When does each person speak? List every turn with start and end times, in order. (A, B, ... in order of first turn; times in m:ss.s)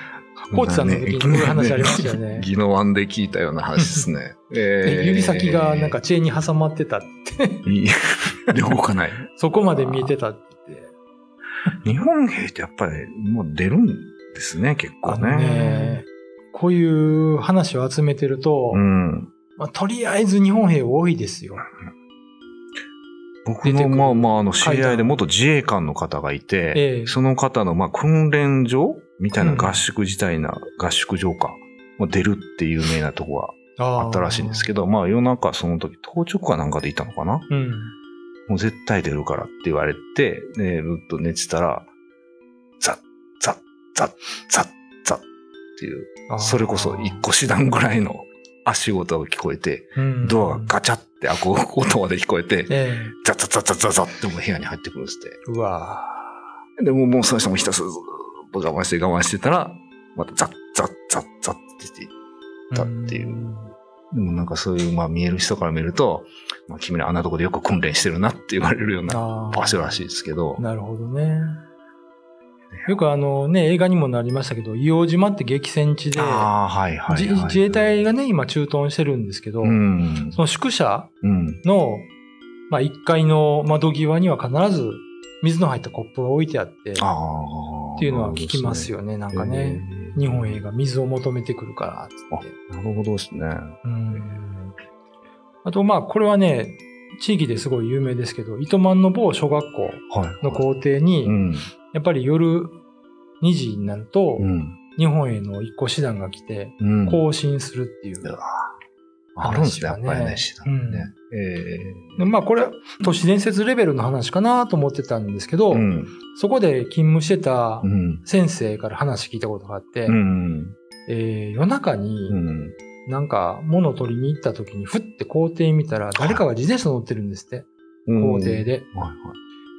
0:00.5-0:02.5 A
0:00.5-0:06.0 B
0:03.8-0:04.0 A
0:04.8-0:07.7 A
0:07.6-0:10.1 B
0:09.3-0:10.9 A
0:11.8-0:16.0 B
0:15.0-0:18.8 A
0:18.7-0:19.3 B
0:19.6-0:21.7 A
0:23.4-0:37.4 B
0:23.6-0:25.2 A
0:26.7-0:27.2 A
0:29.4-0:29.8 A
0:33.8-0:34.7 A
0:37.5-0:37.9 A
0:38.5-0:41.9 B
0:42.8-0:45.2 B
0:45.8-0:55.4 B
0:46.3-0:47.2 A
0:50.0-0:50.7 A
0:52.7-0:53.1 A
0:55.4-0:56.3 A
0:56.8-1:02.1 B
1:02.7-1:03.7 A
1:02.7-1:03.5 B
1:04.1-1:10.6 B
1:09.1-1:10.0 A
1:10.6-1:11.6 A
1:12.8-1:16.5 A
1:16.1-1:17.8 B
1:17.1-1:22.1 A
1:19.6-1:20.4 B
1:21.2-1:21.6 B
1:22.7-1:27.1 A
1:27.0-1:30.6 B
1:28.0-1:32.5 A
1:32.3-1:34.3 B
1:33.8-1:34.7 A
1:35.6-1:42.8 A
1:40.1-1:40.6 B
1:41.2-1:41.7 B
1:43.4-1:48.3 A
1:44.4-1:44.8 B
1:46.8-1:47.2 B
1:48.2-1:48.7 B
1:49.3-1:52.2 B
1:49.4-1:51.1 A
1:52.2-2:00.2 A
1:55.7-1:56.1 B
1:57.8-1:58.2 B
2:00.1-2:00.8 B
2:01.0-2:02.4 A
2:02.3-2:02.8 B
2:03.0-2:08.8 A
2:06.1-2:06.4 B
2:08.0-2:09.4 B